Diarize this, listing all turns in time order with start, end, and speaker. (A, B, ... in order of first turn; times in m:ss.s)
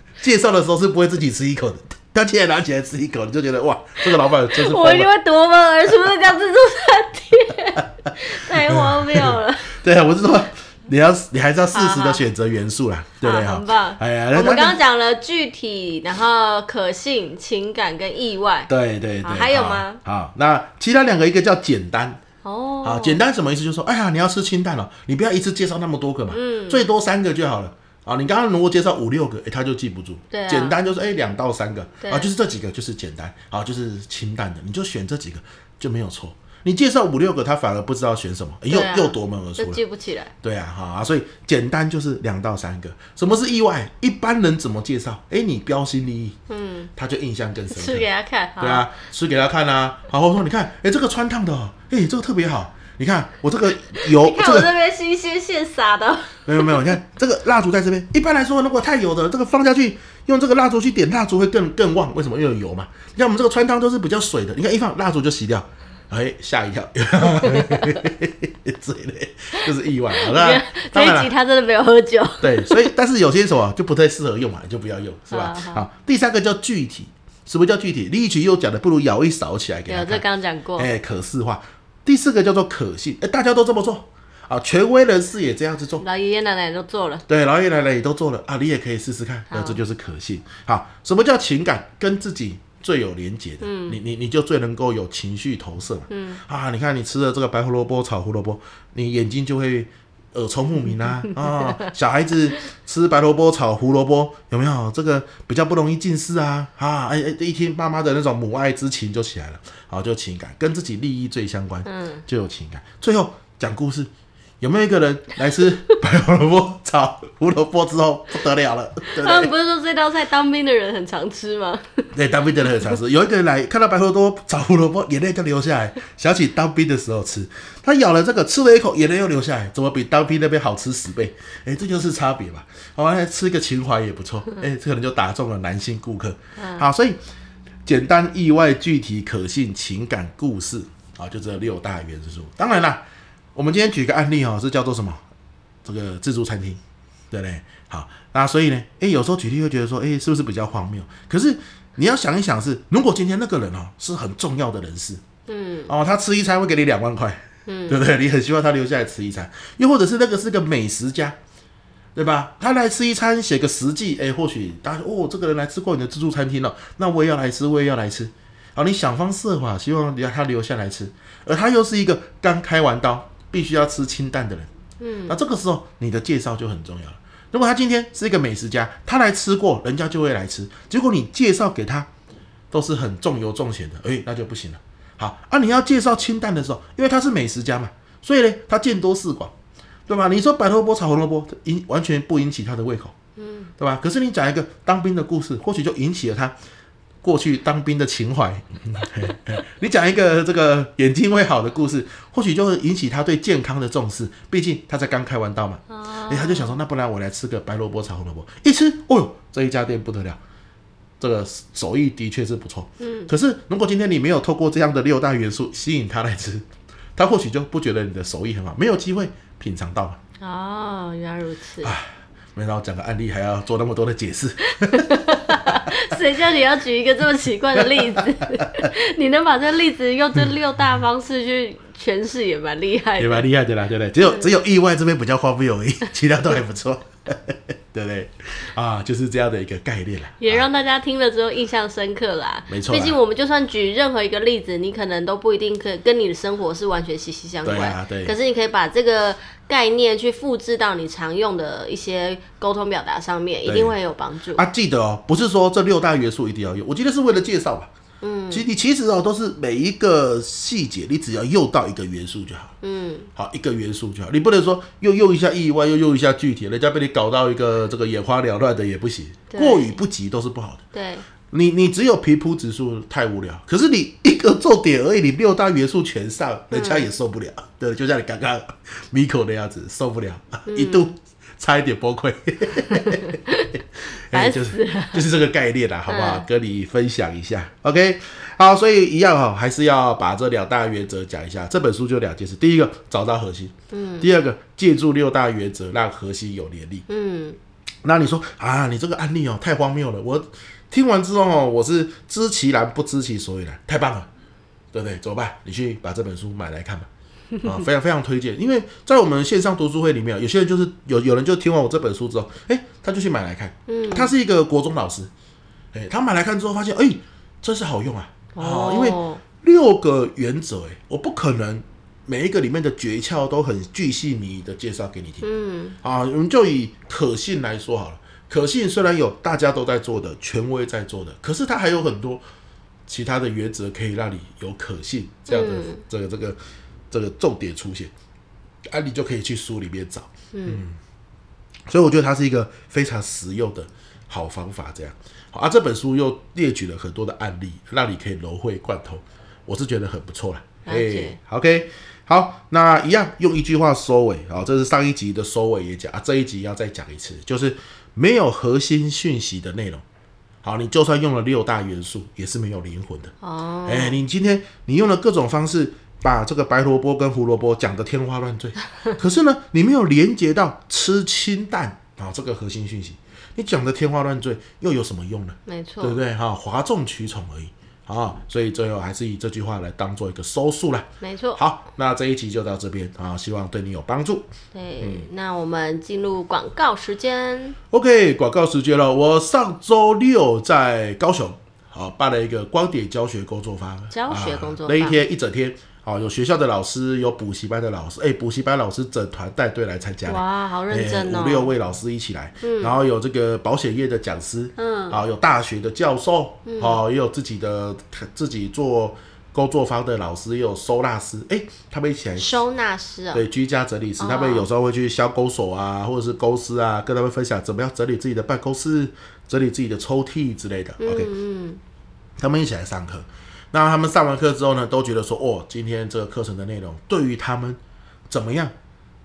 0:00.2-0:05.1 A
0:04.3-0:09.7 B
0:08.7-0:14.8 A
0:11.7-0:12.2 B
0:13.2-0:18.7 B
0:18.7-0:22.2 A
0:19.2-0:20.0 B
0:22.4-0:23.2 B
0:22.8-0:39.8 A
0:26.3-0:26.8 B
0:30.3-0:30.8 B
0:32.0-0:32.3 B
0:38.7-0:40.3 B
0:40.4-0:46.4 A
0:46.5-0:46.9 B
0:47.0-0:54.7 A
0:47.7-0:48.8 B
0:53.9-0:56.9 B
0:56.5-1:11.3 A
1:07.4-1:07.9 B
1:10.1-1:12.9 B
1:12.4-1:20.2 A
1:15.3-1:15.8 B
1:19.9-1:20.9 B
1:20.8-1:26.0 A
1:26.0-1:27.2 B
1:27.3-1:54.1 A
1:29.5-1:29.8 B
1:33.6-1:34.0 B
1:36.1-1:36.4 B
1:41.4-1:41.6 B
1:51.8-1:52.2 B
1:54.6-1:59.5 A
1:59.1-2:02.1 B
2:02.1-2:17.2 A
2:02.6-2:02.9 B
2:16.6-2:16.9 B
2:17.8-2:23.0 A
2:23.5-2:25.2 A
2:25.8-2:26.8 A
2:27.3-2:35.2 A
2:35.5-2:35.9 B
2:35.9-2:41.4 A
2:37.7-2:38.0 B
2:42.1-2:54.7 A
2:55.0-2:55.4 B
2:55.3-3:02.1 A
3:02.7-3:09.5 A
3:10.1-3:13.1 A
3:13.4-3:13.7 B
3:13.8-3:16.5 A
3:17.2-3:30.4 A
3:25.9-3:26.8 B
3:31.2-3:40.2 A
3:33.0-3:33.3 B
3:40.4-3:41.9 B
3:41.8-3:45.8 A
3:44.8-3:53.5 B
3:47.8-3:48.2 A
3:53.2-4:00.7 A
4:00.4-4:14.6 B
4:02.7-4:03.2 A
4:07.6-4:08.3 A
4:13.6-4:14.0 A
4:14.5-4:17.9 A
4:18.2-4:18.6 B
4:18.5-4:22.7 A
4:22.8-4:23.3 B
4:23.4-4:30.8 A
4:29.5-4:30.0 B
4:30.9-4:31.2 B
4:31.5-4:43.4 A
4:36.7-4:37.1 B
4:40.7-4:41.1 B
4:43.0-4:43.7 B
4:44.3-4:57.0 A
4:44.3-4:45.2 B
4:46.1-4:46.4 B
4:53.9-4:54.3 B
4:57.1-4:57.6 B
4:58.0-5:04.3 A
5:04.9-5:07.1 A
5:07.6-5:15.3 A
5:13.9-5:14.3 B
5:15.9-5:25.5 A
5:18.5-5:19.4 B
5:25.4-5:26.0 B
5:26.0-5:32.4 A
5:33.1-5:36.6 A
5:35.5-5:36.0 B
5:37.1-5:38.1 A
5:38.9-5:41.0 A
5:40.5-5:40.8 B
5:41.9-6:00.0 A
5:50.8-5:51.4 B
6:00.6-6:03.3 A
6:03.4-6:04.2 B
6:03.8-6:24.5 A
6:15.7-6:16.2 B
6:21.2-6:21.6 B
6:24.7-6:27.8 B
6:25.0-6:25.3 A
6:27.9-6:52.6 A
6:34.1-6:35.2 B
6:40.2-6:41.7 B
6:42.6-6:43.0 B
6:44.8-6:45.2 B
6:46.6-6:47.0 B
6:52.4-6:53.4 B
6:53.3-7:01.3 A
6:54.2-6:54.6 B
7:01.0-7:01.8 B
7:02.4-7:08.7 A